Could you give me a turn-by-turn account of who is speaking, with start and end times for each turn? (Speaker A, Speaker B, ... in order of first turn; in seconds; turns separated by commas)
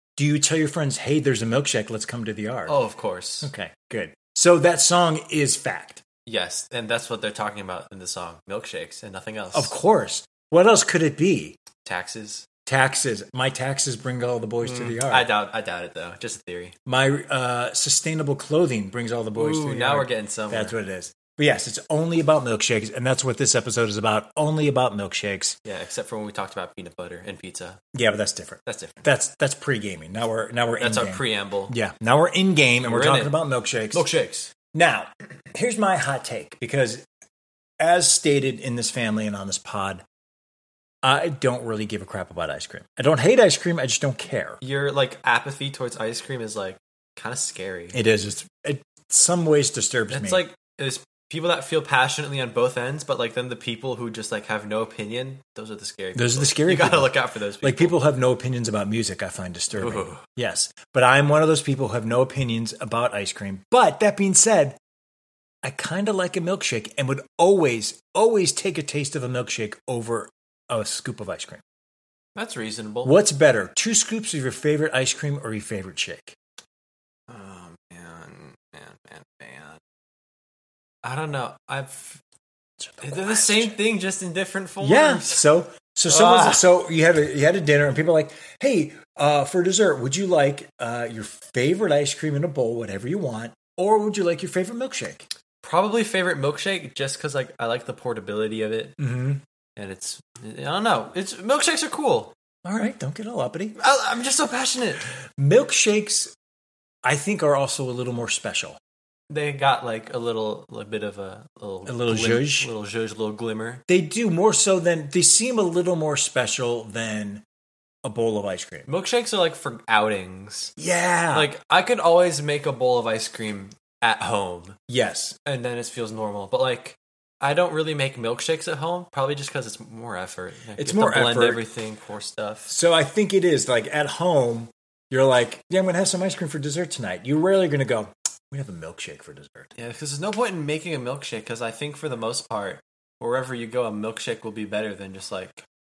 Speaker A: 0.2-2.8, Speaker B: 2.7-3.5, Speaker A: 3.4-6.0, Speaker B: 6.2-9.7, Speaker A: 9.5-11.6, Speaker B: 11.8-12.5, Speaker A: 12.7-15.3, Speaker B: 14.6-16.7, Speaker A: 16.9-25.6, Speaker B: 19.4-20.7, Speaker B: 25.6-27.8, Speaker A: 27.9-34.0, Speaker B: 28.6-29.1, Speaker B: 30.8-31.7, Speaker B: 32.8-33.4, Speaker B: 33.9-34.5, Speaker A: 34.7-37.0, Speaker A: 37.8-40.0, Speaker A: 41.0-44.6, Speaker B: 44.6-48.0, Speaker A: 47.9-50.4, Speaker B: 50.1-58.0, Speaker A: 56.1-64.8, Speaker B: 59.7-60.2, Speaker A: 65.6-71.6, Speaker B: 72.3-73.1, Speaker A: 73.0-76.3, Speaker B: 77.3-79.8, Speaker B: 81.0-82.2, Speaker A: 82.8-83.8, Speaker B: 83.0-85.5, Speaker A: 84.8-95.2, Speaker B: 86.1-86.6, Speaker B: 95.6-99.0, Speaker A: 99.0-99.4, Speaker B: 99.8-102.3, Speaker A: 102.6-103.8, Speaker B: 103.8-105.1, Speaker A: 105.3-106.3, Speaker A: 107.0-108.8, Speaker B: 109.3-113.8, Speaker A: 111.8-112.7, Speaker A: 113.9-117.4, Speaker A: 118.0-118.9, Speaker B: 118.9-120.7, Speaker A: 120.8-121.5, Speaker B: 121.3-124.8, Speaker A: 124.9-125.4, Speaker B: 125.4-132.7, Speaker A: 130.8-131.6, Speaker A: 132.7-139.7, Speaker B: 139.8-145.6